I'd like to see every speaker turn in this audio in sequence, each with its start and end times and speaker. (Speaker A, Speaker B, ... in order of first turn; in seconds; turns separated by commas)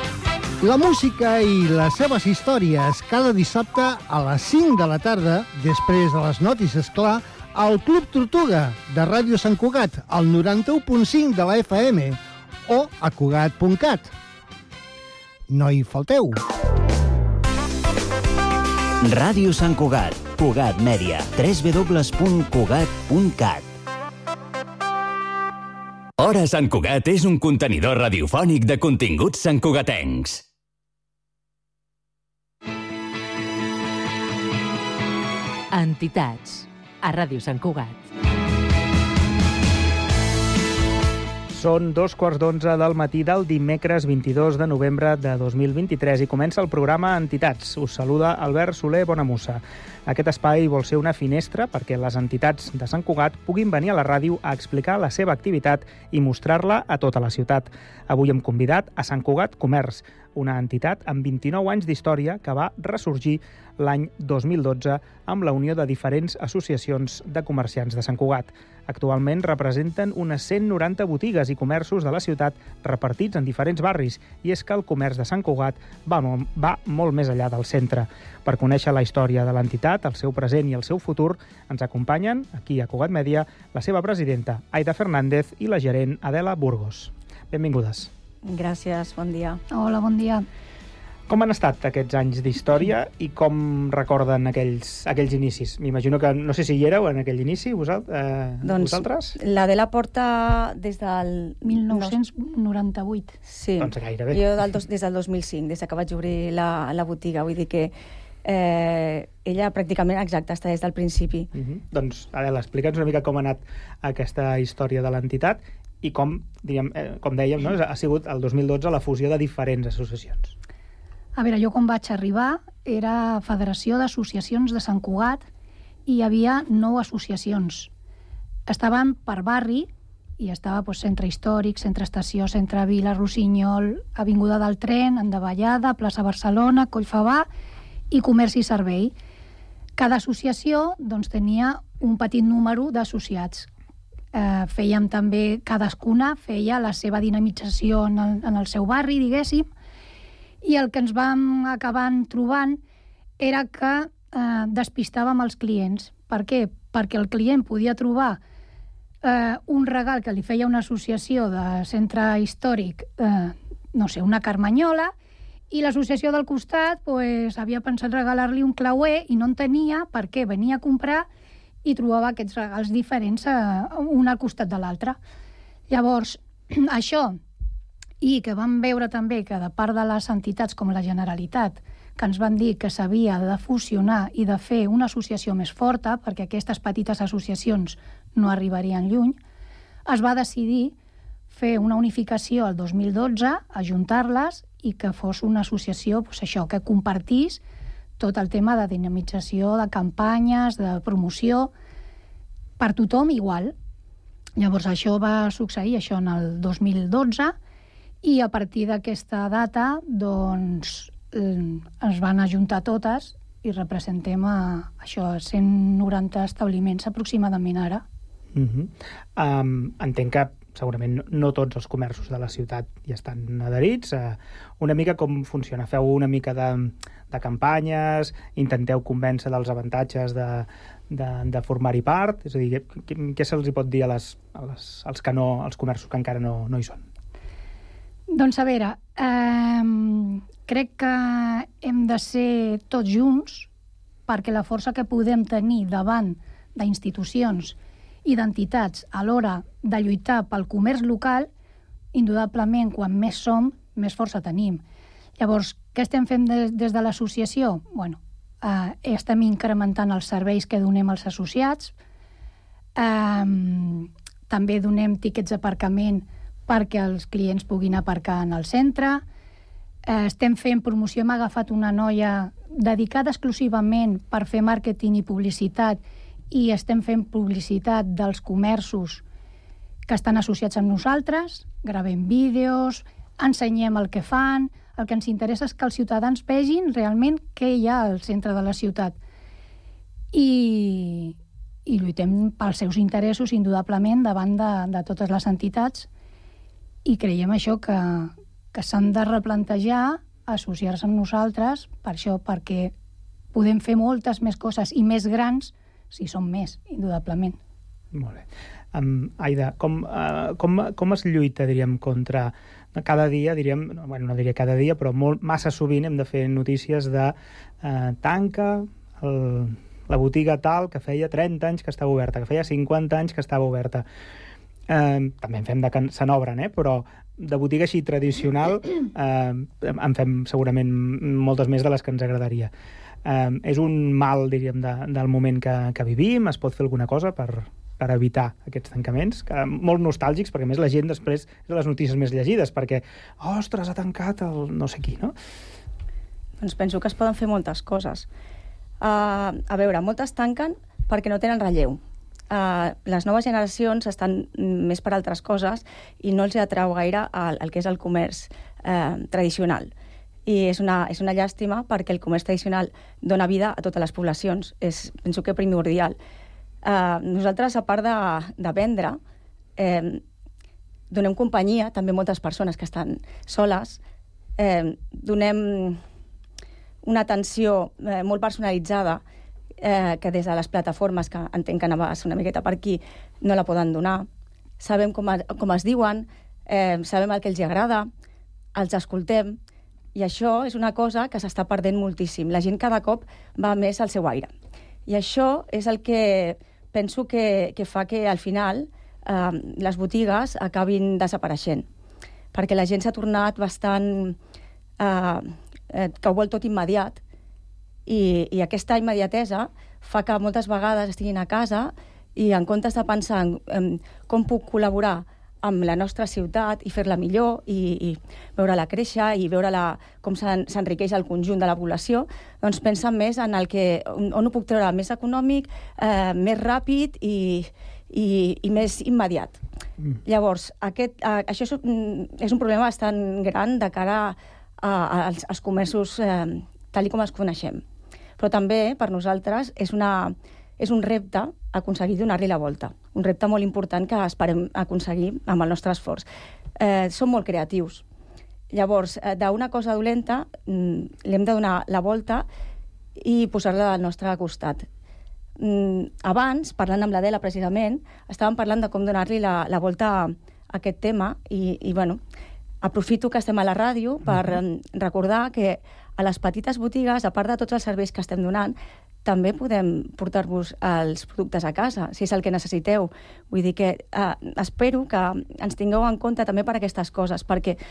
Speaker A: 0.6-14.1, Speaker A: 15.5-16.4, Speaker B: 19.0-23.7, Speaker B: 26.2-30.4, Speaker C: 35.7-38.0, Speaker D: 41.5-88.1, Speaker E: 88.4-89.6, Speaker F: 89.7-90.5, Speaker D: 91.3-99.4, Speaker E: 98.6-102.2, Speaker F: 101.6-103.4, Speaker E: 103.4-107.9, Speaker D: 103.8-104.5, Speaker E: 108.4-111.5, Speaker D: 111.5-120.5, Speaker F: 121.4-125.5, Speaker F: 126.0-127.9, Speaker F: 128.7-137.5, Speaker F: 138.1-139.1, Speaker F: 140.0-143.7, Speaker F: 144.3-149.7, Speaker F: 150.6-152.8, Speaker F: 153.4-158.4, Speaker F: 159.2-165.1, Speaker F: 165.7-171.3, Speaker F: 171.8-175.2, Speaker F: 175.9-177.4, Speaker F: 178.2-189.4, Speaker F: 190.1-190.9, Speaker F: 191.5-197.6, Speaker F: 198.2-201.7, Speaker F: 202.8-203.7, Speaker F: 204.6-207.5, Speaker F: 208.2-218.0, Speaker D: 218.5-237.0, Speaker F: 238.3-243.7, Speaker F: 244.3-251.5, Speaker F: 252.1-254.8, Speaker F: 255.4-261.9, Speaker F: 263.0-269.2, Speaker F: 270.1-279.2, Speaker F: 280.1-289.2, Speaker F: 290.3-296.1, Speaker F: 297.1-302.9, Speaker F: 303.5-307.6, Speaker D: 308.1-324.1, Speaker D: 324.9-332.7, Speaker D: 333.2-345.3, Speaker E: 346.6-348.3, Speaker E: 349.0-352.0, Speaker E: 352.5-359.9, Speaker E: 360.4-366.1, Speaker E: 366.8-369.2, Speaker E: 369.8-370.2, Speaker E: 371.1-374.0, Speaker E: 374.6-376.0, Speaker E: 377.0-379.2, Speaker E: 379.8-384.3, Speaker E: 384.8-388.1, Speaker E: 388.7-389.6, Speaker E: 390.1-394.5, Speaker E: 395.1-401.9, Speaker E: 402.5-404.4, Speaker E: 405.0-407.2, Speaker E: 408.1-429.6, Speaker E: 430.3-437.8, Speaker E: 438.4-446.3, Speaker E: 446.8-448.1, Speaker E: 448.7-452.4, Speaker E: 453.2-454.9, Speaker E: 455.6-462.2, Speaker E: 462.8-477.8, Speaker D: 464.3-464.6